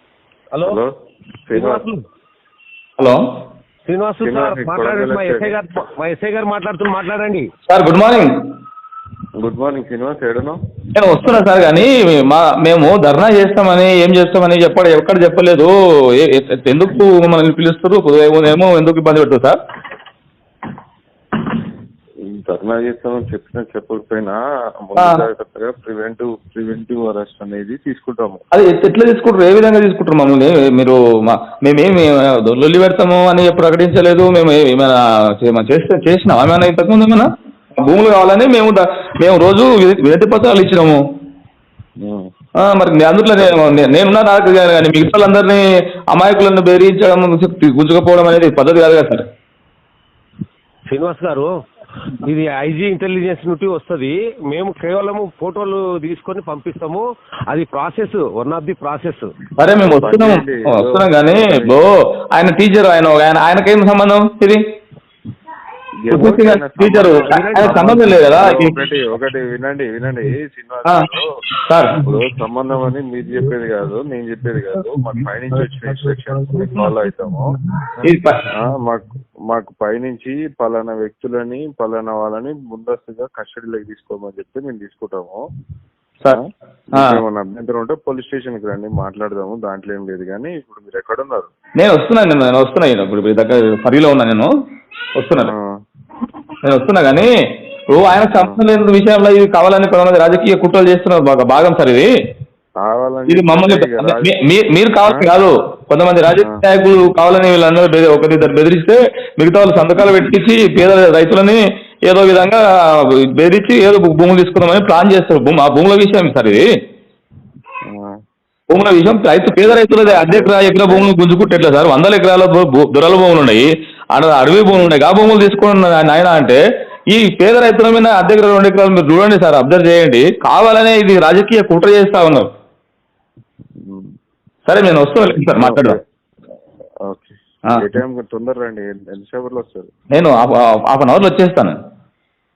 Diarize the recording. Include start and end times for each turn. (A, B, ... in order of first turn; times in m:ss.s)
0:00.5-0:00.8 A
0:00.6-0:00.9 B
0:01.5-0:01.8 B
0:01.5-0:02.0 A
0:03.9-0:07.4 A
0:04.2-0:05.5 B
0:07.7-0:08.3 C
0:09.4-0:10.6 B
0:10.9-0:19.6 C
0:22.3-0:28.4 B
0:25.0-0:25.2 C
0:28.5-0:41.0 C
0:42.0-0:42.3 B
0:42.6-0:49.2 C
0:50.9-0:51.5 A
0:52.2-0:59.3 A
0:59.6-1:04.6 C
0:59.8-1:01.8 B
1:06.0-1:11.3 B
1:06.1-1:08.8 C
1:07.3-1:08.0 A
1:11.7-1:12.0 C
1:12.0-1:17.6 B
1:18.0-1:18.4 C
1:18.5-1:25.4 B
1:26.3-1:31.5 B
1:26.9-1:27.2 C
1:31.8-1:34.5 C
1:35.2-1:35.5 C
1:35.4-1:35.7 B
1:36.6-1:37.3 C
1:37.9-1:42.1 C
1:42.8-1:44.3 B
1:43.3-1:56.6 C
1:58.7-2:06.6 C
1:59.6-2:01.1 B
2:04.7-2:04.9 B
2:07.1-2:12.5 C
2:13.8-2:14.1 B
2:14.6-2:16.0 C
2:15.3-2:16.0 B
2:17.1-2:19.9 B
2:20.1-2:21.8 C